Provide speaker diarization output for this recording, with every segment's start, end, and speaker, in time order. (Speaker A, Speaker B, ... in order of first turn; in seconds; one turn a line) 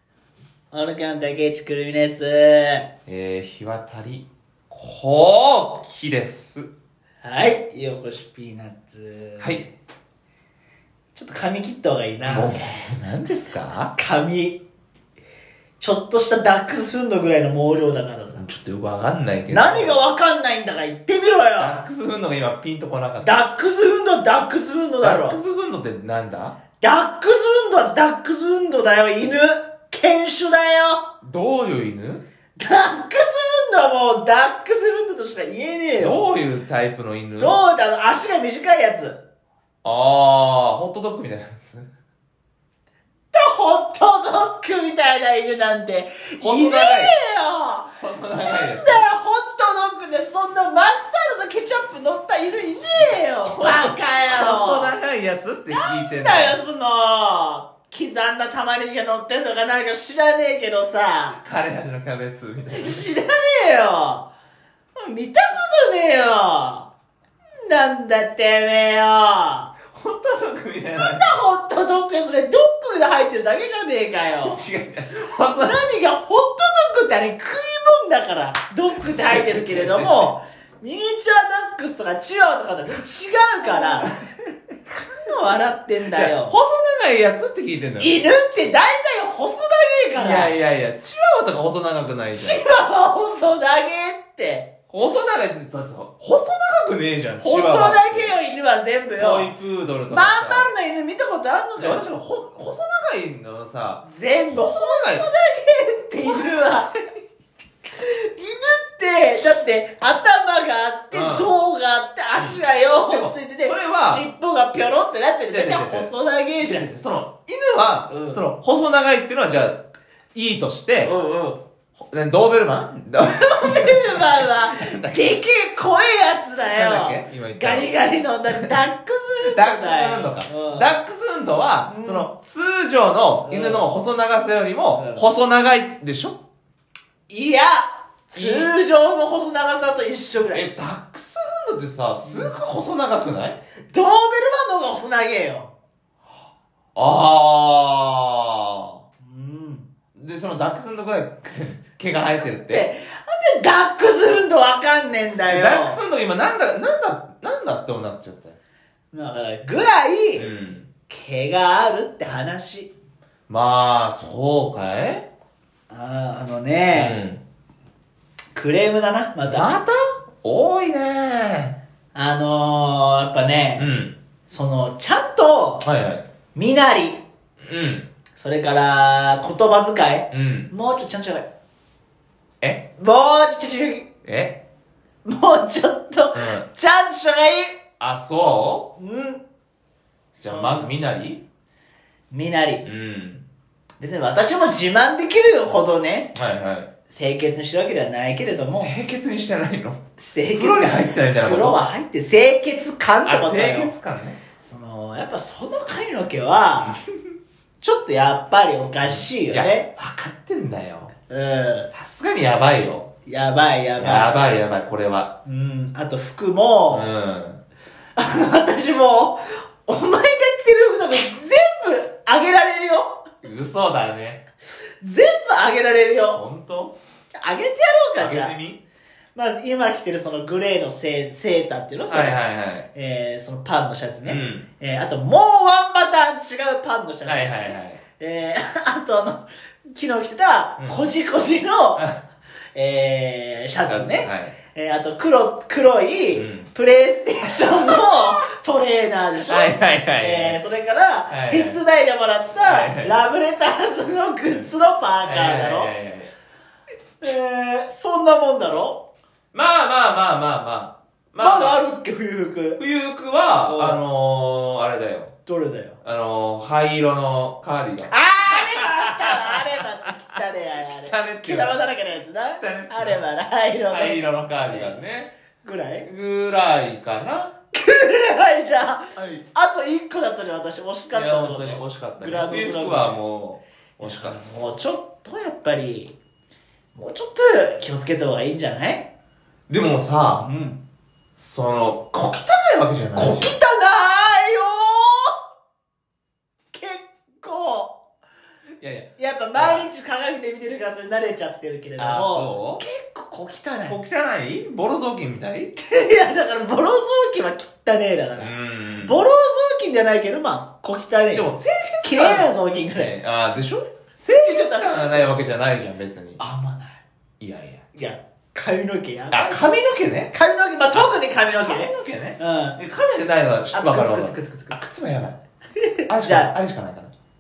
Speaker A: 0.7-2.9
Speaker B: 3.1-6.7
Speaker A: 7.2-9.7
Speaker B: 9.4-9.7
Speaker A: 11.2-12.7
Speaker B: 12.2-13.9
Speaker A: 13.9-14.6
Speaker A: 15.8-18.4
Speaker B: 18.4-20.0
Speaker A: 19.5-21.9
Speaker B: 21.6-23.4
Speaker A: 23.2-25.4
Speaker B: 25.0-26.6
Speaker A: 26.8-31.1
Speaker B: 31.2-32.2
Speaker A: 32.6-36.2
Speaker B: 36.0-37.6
Speaker A: 37.4-39.2
Speaker B: 39.8-41.9
Speaker A: 43.3-54.9
Speaker B: 46.4-47.1
Speaker B: 48.0-49.1
Speaker B: 52.9-56.6
Speaker A: 55.7-61.4
Speaker B: 61.4-63.1
Speaker A: 62.7-64.3
Speaker A: 65.0-66.9
Speaker A: 67.7-69.7
Speaker B: 69.9-71.3
Speaker A: 71.0-74.6
Speaker B: 74.3-75.8
Speaker A: 75.6-84.1
Speaker B: 79.0-80.3
Speaker B: 83.8-84.1
Speaker A: 85.2-86.6
Speaker B: 86.1-88.2
Speaker A: 88.0-90.5
Speaker B: 90.2-92.6
Speaker A: 92.3-94.7
Speaker B: 94.9-98.3
Speaker A: 97.4-99.5
Speaker B: 99.2-100.7
Speaker A: 100.1-102.0
Speaker B: 101.8-105.3
Speaker A: 104.0-106.9
Speaker A: 107.9-116.9
Speaker B: 111.1-111.5
Speaker B: 112.4-114.3
Speaker B: 115.5-119.8
Speaker A: 118.1-118.5
Speaker B: 120.3-121.1
Speaker A: 121.0-121.6
Speaker B: 122.0-125.3
Speaker A: 123.3-130.9
Speaker B: 126.8-127.9
Speaker B: 128.5-128.8
Speaker B: 129.5-136.4
Speaker A: 131.9-132.3
Speaker A: 133.4-133.9
Speaker A: 135.0-135.3
Speaker A: 137.3-140.7
Speaker B: 138.3-138.7
Speaker B: 140.5-143.6
Speaker A: 142.2-142.6
Speaker A: 143.9-145.7
Speaker B: 146.9-149.0
Speaker A: 149.2-149.9
Speaker B: 150.2-152.9
Speaker A: 152.4-156.0
Speaker B: 155.5-158.6
Speaker A: 159.1-160.5
Speaker B: 160.4-160.9
Speaker A: 161.1-162.9
Speaker B: 163.5-165.3
Speaker A: 165.9-167.2
Speaker B: 166.9-167.4
Speaker A: 168.6-169.7
Speaker B: 169.4-171.8
Speaker A: 172.1-173.9
Speaker B: 173.8-174.2
Speaker A: 174.5-175.9
Speaker B: 175.8-176.3
Speaker A: 176.6-177.2
Speaker B: 177.6-178.1
Speaker A: 178.4-181.5
Speaker B: 180.3-180.7
Speaker A: 183.0-184.1
Speaker B: 184.2-184.6
Speaker A: 185.2-187.8
Speaker B: 186.3-186.7
Speaker B: 188.0-188.9
Speaker A: 189.0-189.4
Speaker A: 190.3-190.9
Speaker B: 190.4-191.4
Speaker A: 192.3-192.8
Speaker B: 192.8-193.4
Speaker A: 194.0-196.3
Speaker B: 196.3-196.9
Speaker A: 197.1-198.9
Speaker B: 198.7-200.0
Speaker A: 200.2-203.9
Speaker B: 200.5-201.8
Speaker B: 203.2-204.4
Speaker A: 204.6-207.0
Speaker B: 206.8-207.1
Speaker A: 207.8-209.9
Speaker B: 209.0-211.1
Speaker A: 211.3-211.9
Speaker B: 211.9-213.1
Speaker A: 213.2-214.4
Speaker B: 214.0-215.3
Speaker A: 215.4-217.1
Speaker B: 216.9-217.6
Speaker A: 218.2-223.3
Speaker B: 223.4-224.4
Speaker A: 225.0-226.4
Speaker B: 226.3-227.0
Speaker A: 227.4-228.5
Speaker B: 228.2-228.8
Speaker A: 229.3-242.1
Speaker B: 232.1-232.9
Speaker B: 234.2-234.7
Speaker B: 237.3-238.0
Speaker B: 240.8-241.1
Speaker A: 242.8-255.9
Speaker B: 243.9-244.6
Speaker B: 246.3-246.7
Speaker B: 249.5-250.6
Speaker B: 251.3-251.8
Speaker B: 252.6-253.2
Speaker B: 255.2-256.3
Speaker A: 257.2-259.1
Speaker B: 259.5-261.8
Speaker A: 261.4-262.8
Speaker B: 262.8-265.3
Speaker A: 263.7-264.0
Speaker A: 265.5-266.0
Speaker B: 266.0-269.9
Speaker A: 268.1-275.0
Speaker B: 271.0-271.8
Speaker B: 272.6-273.2
Speaker B: 273.9-275.3
Speaker A: 275.6-276.1
Speaker B: 276.1-277.5
Speaker A: 277.7-283.2
Speaker B: 281.1-284.4
Speaker A: 284.0-286.2
Speaker A: 286.9-289.1
Speaker B: 289.7-290.5
Speaker A: 290.4-290.8
Speaker B: 291.4-293.6
Speaker A: 293.2-295.4
Speaker A: 296.7-298.0
Speaker B: 298.8-299.9
Speaker A: 299.2-304.0
Speaker B: 302.0-302.8
Speaker B: 303.9-305.7
Speaker A: 305.8-311.5
Speaker B: 308.4-309.2
Speaker B: 311.3-316.4
Speaker A: 312.0-313.2
Speaker A: 314.4-315.4
Speaker A: 316.4-317.0
Speaker B: 317.4-317.8
Speaker A: 317.9-319.7
Speaker B: 319.3-320.3
Speaker A: 320.3-322.8
Speaker B: 320.9-325.4
Speaker A: 323.7-324.8
Speaker A: 325.8-326.6
Speaker B: 326.1-327.1